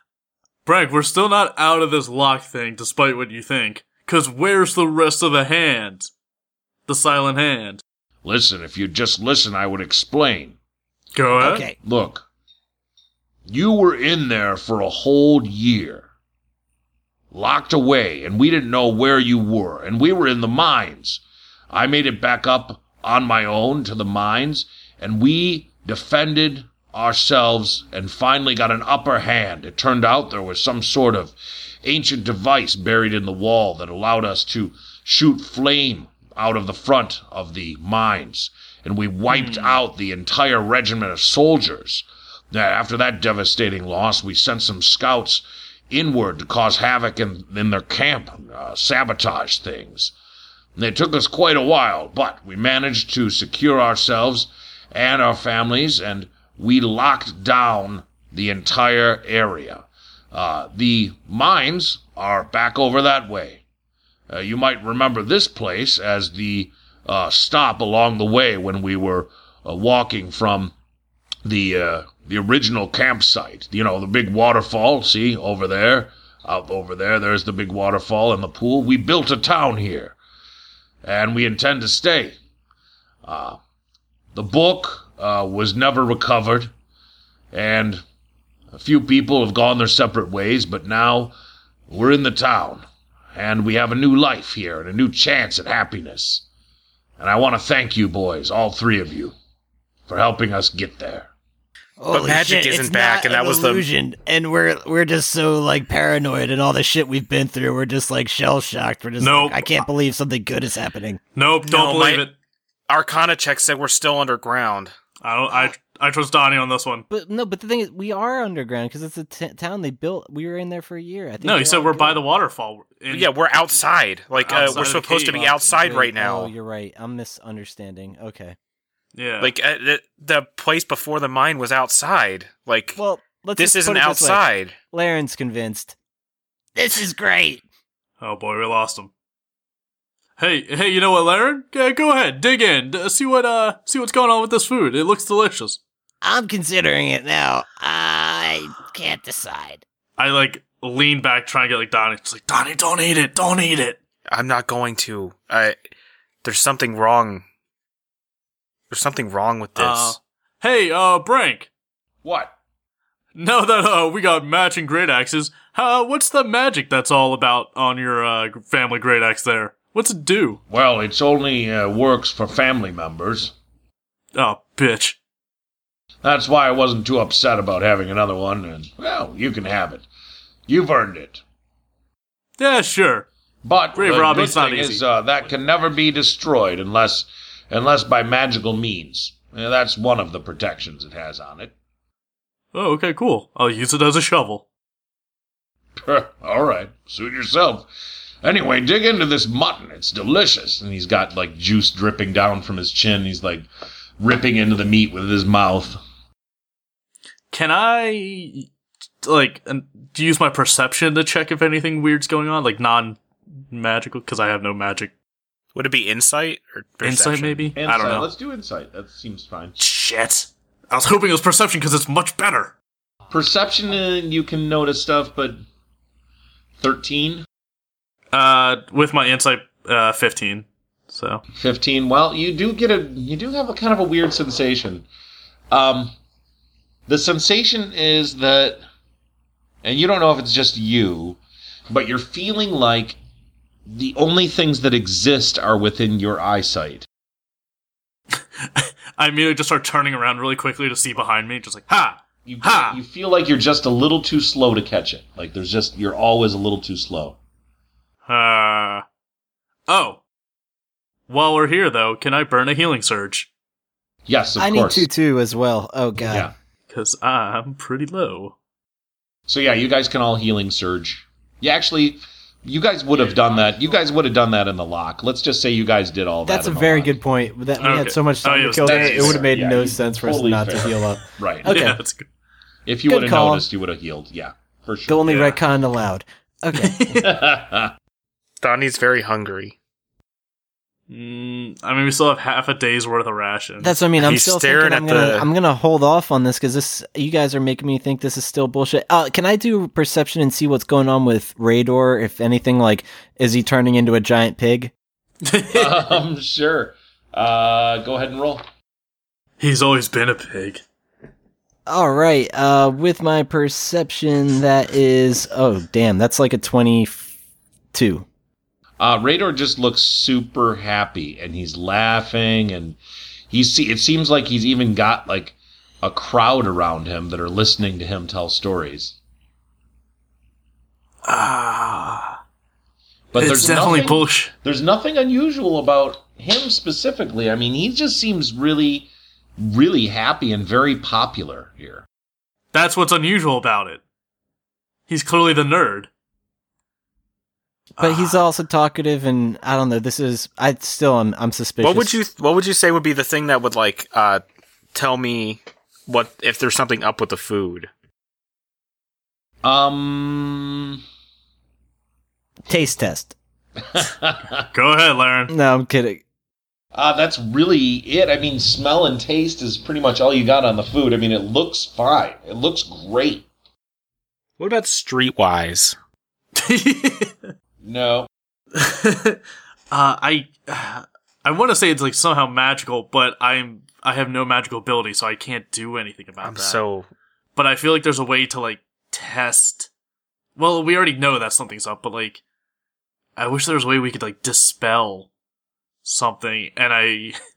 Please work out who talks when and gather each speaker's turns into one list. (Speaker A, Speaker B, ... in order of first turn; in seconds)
Speaker A: 0.6-6.1, 6.9-7.8, 11.1-11.7, 39.3-39.8, 109.2-109.8, 111.3-112.3, 115.2-117.0, 121.4-123.3, 124.4-125.5, 129.1-129.5, 138.2-139.1, 140.4-145.8, 150.2-154.0, 159.8-161.7, 163.3-170.6, 174.3-175.2, 182.6-183.3, 183.9-185.0, 192.7-194.6, 207.5-208.7, 209.2-213.2, 213.7-215.1, 217.0-218.3, 219.8-222.7, 228.3-231.4, 248.3-253.0, 258.3-259.0, 259.9-260.2, 261.3-263.5, 266.9-268.5, 277.8-279.4, 281.6-282.3, 285.3-285.6, 286.7-287.3, 291.1-294.0, 305.4-306.1, 309.6-310.8, 331.2-332.4, 333.4-334.5, 342.7-344.0, 345.1-346.1, 348.1-348.4, 364.7-365.5, 376.6-377.5, 378.8-379.4, 379.9-386.8, 387.6-389.9, 390.6-392.4, 393.4-395.3, 396.0-397.4
Speaker B: 8.2-10.6, 11.8-12.2, 13.5-16.1, 17.3-50.1, 50.8-63.6, 64.3-70.7, 71.4-80.2, 81.0-82.4, 83.2-83.6, 84.3-86.7, 87.5-88.0, 88.7-91.3, 91.9-96.4, 97.2-99.3, 100.1-101.3, 162.2-162.5, 170.7-173.5, 176.2-180.1, 180.7-181.4, 183.6-191.7, 195.9-197.9, 198.4-203.7, 204.2-206.0, 217.8-219.8, 223.3-225.6, 226.8-227.4, 231.5-235.1, 235.7-236.1, 237.1-238.8, 239.8-243.2, 243.9-247.1, 252.4-257.4, 264.2-265.1, 266.2-266.5, 269.5-277.1, 278.8-281.7, 282.9-285.5, 287.1-287.9, 305.7-308.6, 319.0-323.0, 323.5-329.1, 333.3-342.0, 359.6-361.0, 363.8-364.6, 366.9-373.5, 377.8-378.3
Speaker C: 11.4-11.8, 102.0-111.2, 136.7-137.6, 146.2-149.8
Speaker D: 102.1-103.8, 111.6-112.2, 112.9-114.9, 123.1-126.5, 129.4-133.0, 133.6-134.8, 154.3-155.8, 156.4-157.4, 158.9-160.2, 215.7-217.7, 288.6-289.7, 294.2-295.5, 351.8-354.4, 354.9-357.9, 374.6-375.9, 386.4-387.1
Speaker E: 117.1-122.2, 124.5-128.6, 132.9-135.9, 264.6-266.5, 276.4-282.0, 283.1-283.6, 285.1-287.1, 293.8-304.9, 311.9-317.3, 317.9-318.2, 348.0-352.2, 362.7-363.3, 365.5-366.2